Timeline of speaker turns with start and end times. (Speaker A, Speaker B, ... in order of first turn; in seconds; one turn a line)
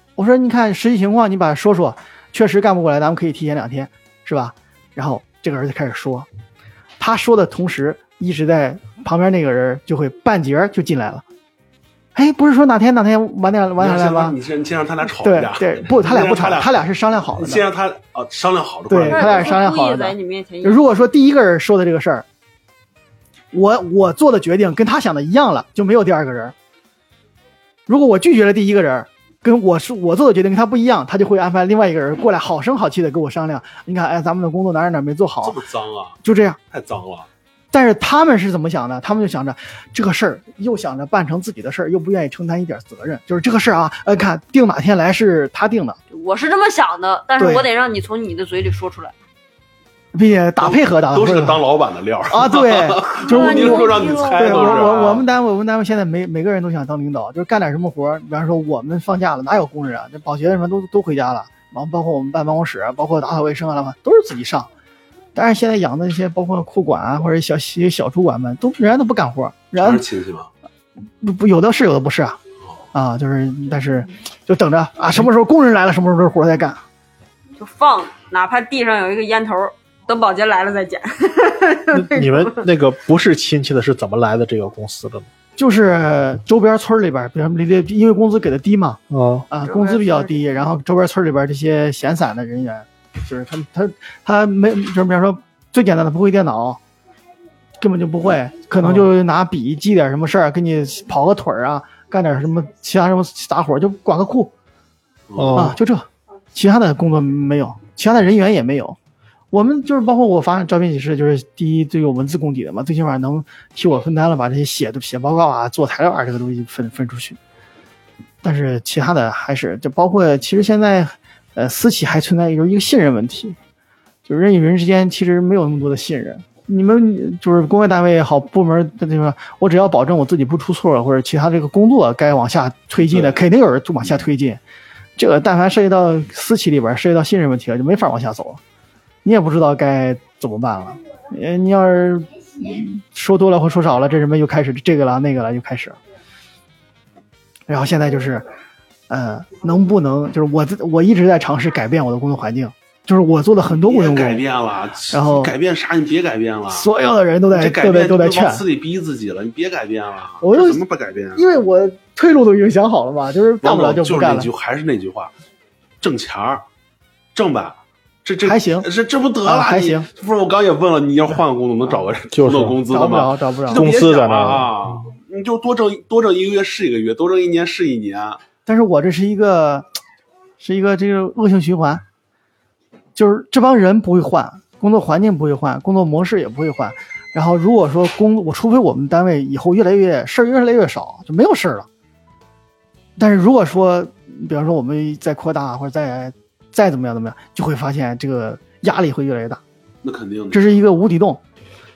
Speaker A: 0.1-6.3
Speaker A: 7.0-11.2
Speaker A: 12.1-14.4
Speaker B: 13.8-16.7
Speaker A: 15.2-17.6
Speaker B: 17.3-19.6
Speaker A: 18.9-22.2
Speaker C: 19.1-21.0
Speaker A: 23.5-26.5
Speaker A: 27.9-35.6
Speaker B: 35.4-36.2
Speaker A: 36.2-36.6
Speaker B: 36.7-37.3
Speaker A: 37.7-46.0
Speaker C: 46.1-49.1
Speaker A: 47.4-47.6
Speaker A: 50.1-51.6
Speaker B: 50.6-55.2
Speaker A: 52.3-64.7
Speaker C: 53.2-55.1
Speaker A: 65.3-70.0
Speaker B: 69.8-70.5
Speaker A: 71.2-72.4
Speaker A: 72.9-76.8
Speaker C: 77.6-82.6
Speaker D: 81.9-85.3
Speaker A: 85.6-96.8
Speaker D: 89.1-89.5
Speaker C: 89.6-90.5
Speaker A: 97.8-104.5
Speaker D: 98.8-99.1
Speaker B: 105.3-105.7
Speaker D: 105.3-105.8
Speaker A: 105.5-109.0
Speaker A: 109.5-117.4
Speaker A: 118.4-123.5
Speaker A: 124.2-134.6
Speaker B: 133.1-133.4
Speaker A: 135.2-138.6
Speaker A: 139.2-146.0
Speaker A: 147.7-148.4
Speaker A: 149.1-154.4
Speaker B: 153.8-156.9
Speaker A: 155.1-155.5
Speaker A: 156.7-158.6
Speaker B: 157.5-161.4
Speaker A: 160.4-160.8
Speaker A: 161.3-164.5
Speaker B: 163.6-165.3
Speaker B: 166.0-166.6
Speaker B: 167.3-178.4
Speaker A: 168.4-168.9
Speaker A: 169.4-170.1
Speaker D: 172.3-172.8
Speaker A: 172.9-173.8
Speaker D: 173.7-175.1
Speaker A: 178.7-179.9
Speaker A: 180.6-182.0
Speaker A: 183.1-191.9
Speaker A: 193.2-199.6
Speaker B: 200.0-200.7
Speaker A: 200.5-201.4